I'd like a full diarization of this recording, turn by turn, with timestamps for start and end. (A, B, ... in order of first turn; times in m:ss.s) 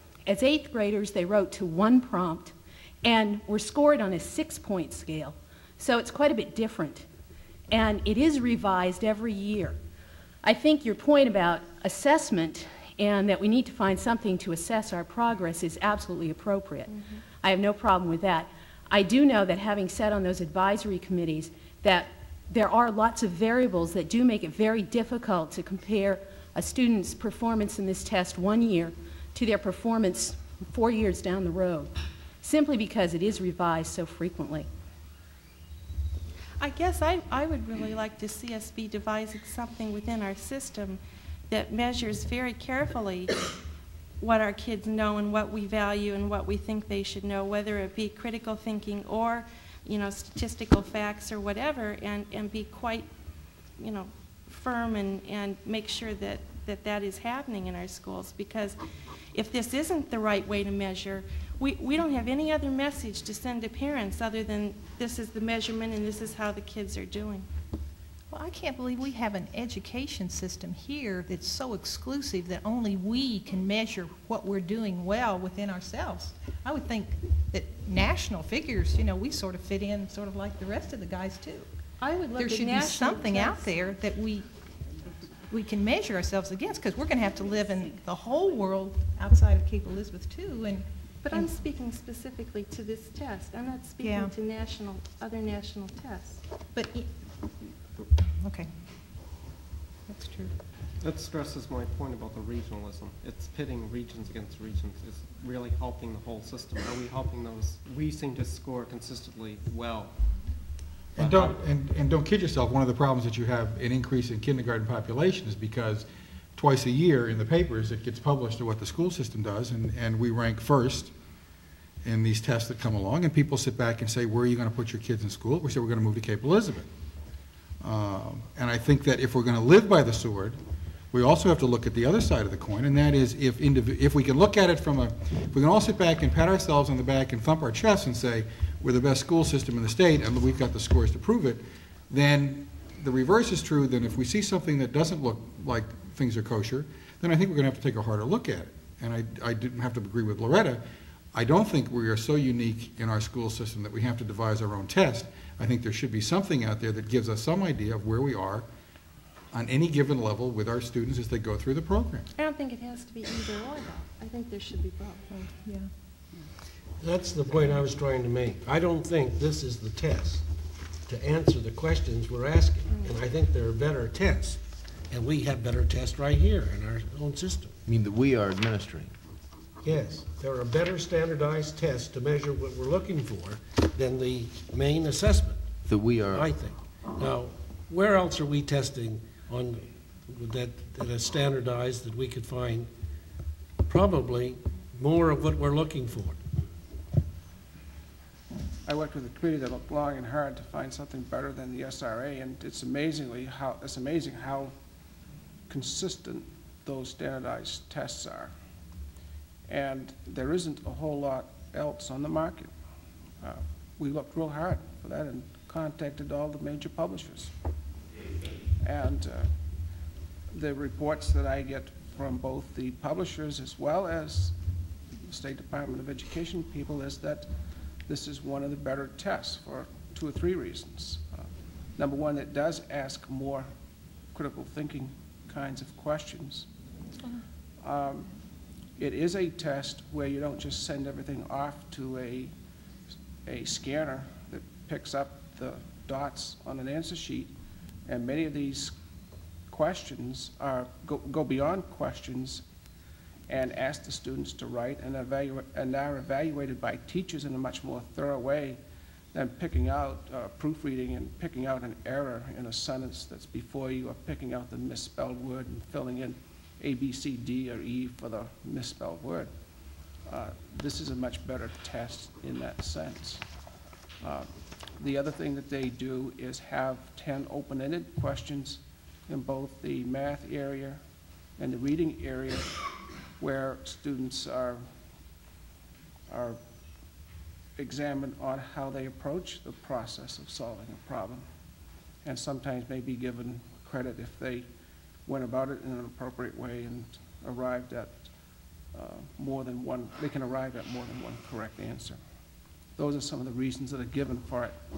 0:00.3-0:07.1 A
0:07.7-0:09.8 A
0:10.4-0:34.7 A
0:16.9-0:17.2 B
0:36.6-0:43.4 B
0:44.2-0:53.1 B
0:53.8-0:58.8 B
0:59.3-1:07.5 B
1:08.3-1:21.7 C
1:22.0-1:23.8 B
1:22.4-1:24.5 C
1:25.5-1:31.5 C
1:31.2-1:36.4 B
1:34.0-1:34.3 C
1:36.7-1:37.6 C
1:38.4-1:38.8 C
1:40.1-1:40.5 C
1:41.0-1:50.2 D
1:51.2-1:51.6 D
1:51.2-2:01.1 E
2:02.0-2:06.9 E
2:07.8-2:10.6 E
2:11.1-2:30.8 E
2:31.3-2:38.7 E
2:39.5-2:42.3 E
2:42.4-2:45.3 B
2:45.3-2:45.9 C
2:47.0-2:50.5 F
2:51.0-2:57.7 F
2:57.9-2:59.1 G
2:59.8-3:05.6 F
3:05.9-3:06.5 G
3:06.3-3:12.9 F
3:13.9-3:16.4 F
3:18.8-3:24.8 H
3:25.7-3:28.5 H
3:29.7-3:32.7 H
3:33.4-3:37.5 H
3:38.8-3:39.5 H
3:40.5-3:44.6 H
3:45.2-3:47.5 H
3:48.1-3:53.7 H
3:54.3-3:56.7 H
3:57.8-3:58.3 H
3:59.0-4:02.5 H
4:03.4-4:07.5 H
4:08.1-4:09.0 H
4:09.7-4:12.6 H
4:13.5-4:18.8 H
4:19.3-4:29.5 H
4:30.2-4:33.4 H
4:34.2-4:41.0 H
4:41.6-4:42.7 H
4:43.4-4:44.9 H
4:46.3-4:46.6 H
4:47.8-4:51.5 H
4:52.2-4:54.7 H
4:55.3-4:58.3 H
4:58.9-5:02.2 H
5:03.0-5:04.8 H